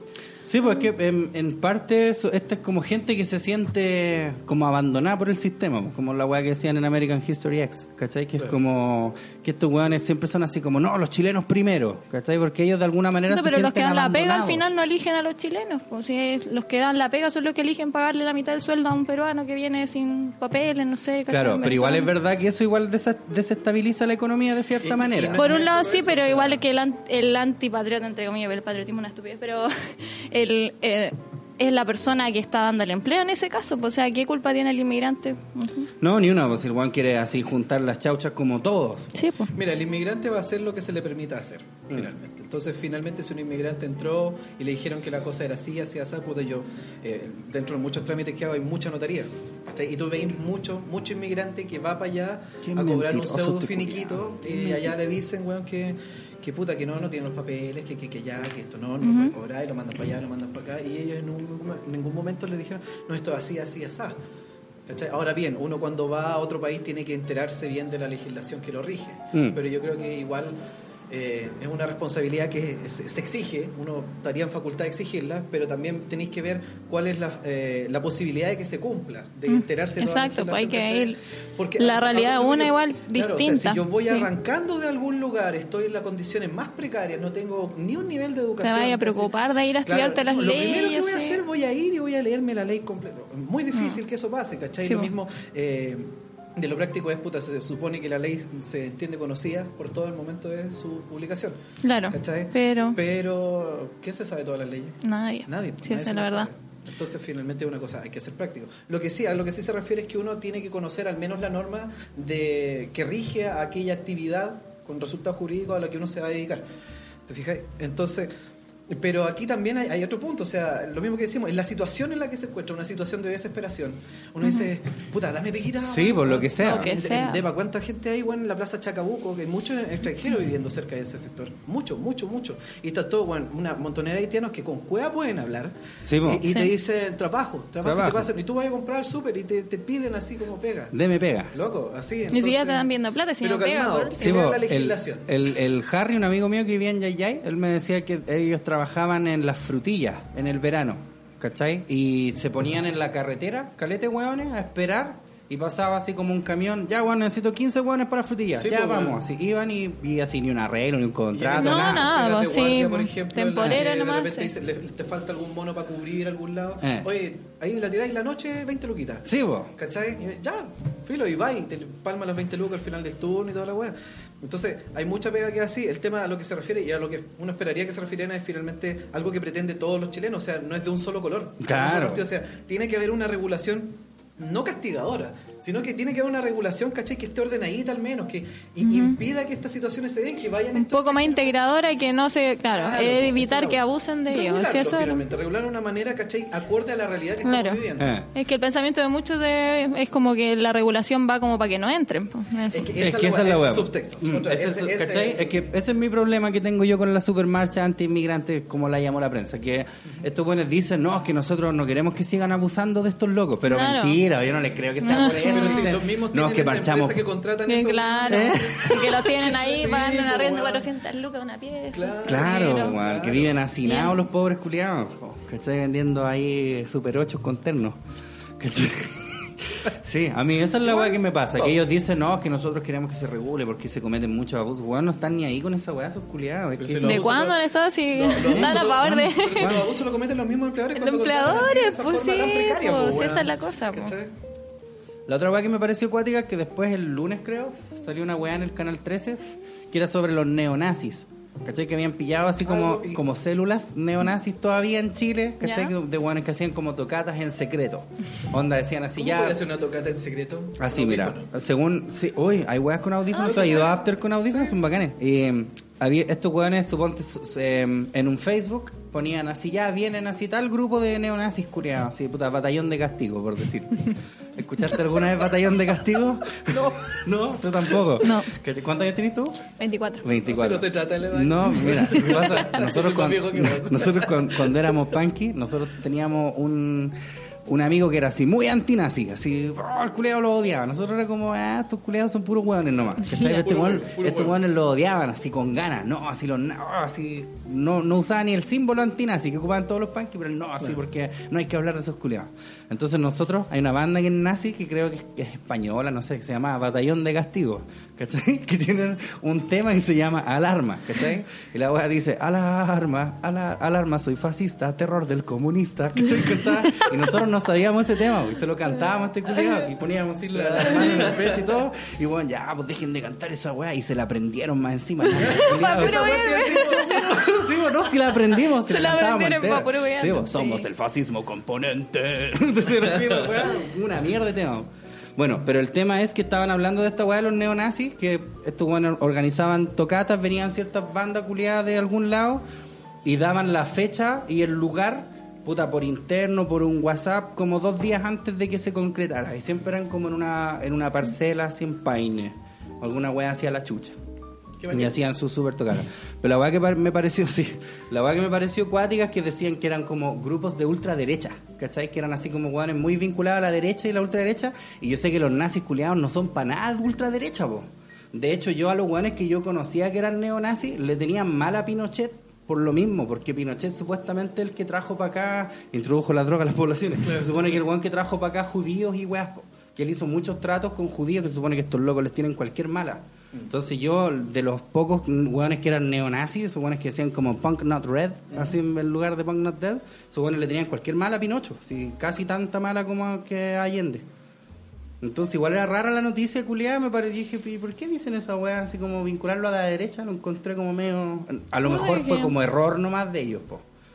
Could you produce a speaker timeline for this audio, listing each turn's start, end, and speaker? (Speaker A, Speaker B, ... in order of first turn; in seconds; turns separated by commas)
Speaker A: 0.5-14.7, Speaker B: 13.3-22.1, Speaker A: 21.3-25.4, Speaker C: 24.8-26.6, Speaker B: 25.2-35.9, Speaker A: 36.0-39.1, Speaker B: 39.1-39.5, Speaker C: 39.5-64.2, Speaker A: 52.6-55.0, Speaker B: 59.0-59.3, Speaker C: 64.9-70.5, Speaker A: 69.3-69.6, Speaker C: 71.1-89.3, Speaker B: 79.5-81.2, Speaker B: 81.8-84.3, Speaker B: 88.6-91.4, Speaker C: 89.8-116.6, Speaker B: 93.7-94.0, Speaker B: 94.8-95.1, Speaker B: 101.8-103.0, Speaker B: 105.0-106.5, Speaker C: 117.3-118.3, Speaker C: 118.9-140.9, Speaker A: 125.8-126.9, Speaker B: 126.6-127.4, Speaker A: 136.0-136.5, Speaker A: 137.8-138.3, Speaker A: 140.9-141.5, Speaker C: 141.5-145.3, Speaker B: 142.3-144.4, Speaker A: 144.2-162.1, Speaker C: 158.6-159.2, Speaker C: 161.3-191.6, Speaker B: 161.6-164.5, Speaker A: 166.8-167.1, Speaker A: 169.2-169.7, Speaker A: 181.6-182.2, Speaker B: 188.8-189.2, Speaker B: 190.7-195.2, Speaker C: 192.7-198.1, Speaker B: 197.4-197.8, Speaker A: 198.0-198.3, Speaker B: 198.3-202.9, Speaker C: 202.7-205.6, Speaker A: 203.0-217.2, Speaker B: 213.7-214.2, Speaker B: 215.0-215.9, Speaker C: 215.1-220.9, Speaker B: 217.7-223.0, Speaker A: 218.3-219.2, Speaker C: 221.9-223.6, Speaker A: 222.2-228.0, Speaker B: 223.8-224.2, Speaker A: 228.6-237.3, Speaker C: 231.0-231.8, Speaker C: 236.8-244.3, Speaker B: 237.0-239.8, Speaker A: 238.4-239.9, Speaker B: 240.9-244.1, Speaker A: 245.3-259.6, Speaker C: 252.6-253.2, Speaker B: 255.6-255.9, Speaker C: 259.1-261.5, Speaker A: 260.8-279.6, Speaker B: 263.3-264.0, Speaker C: 263.4-265.0, Speaker B: 278.2-278.5, Speaker B: 279.8-280.2, Speaker A: 280.2-342.6, Speaker C: 280.4-285.0, Speaker C: 293.4-294.6, Speaker C: 320.4-321.8, Speaker B: 325.2-327.3, Speaker C: 325.5-327.7, Speaker B: 328.7-330.9, Speaker A: 343.2-354.1, Speaker C: 354.8-355.2, Speaker A: 354.9-394.2, Speaker C: 377.3-377.7, Speaker A: 395.2-403.8, Speaker B: 401.8-402.5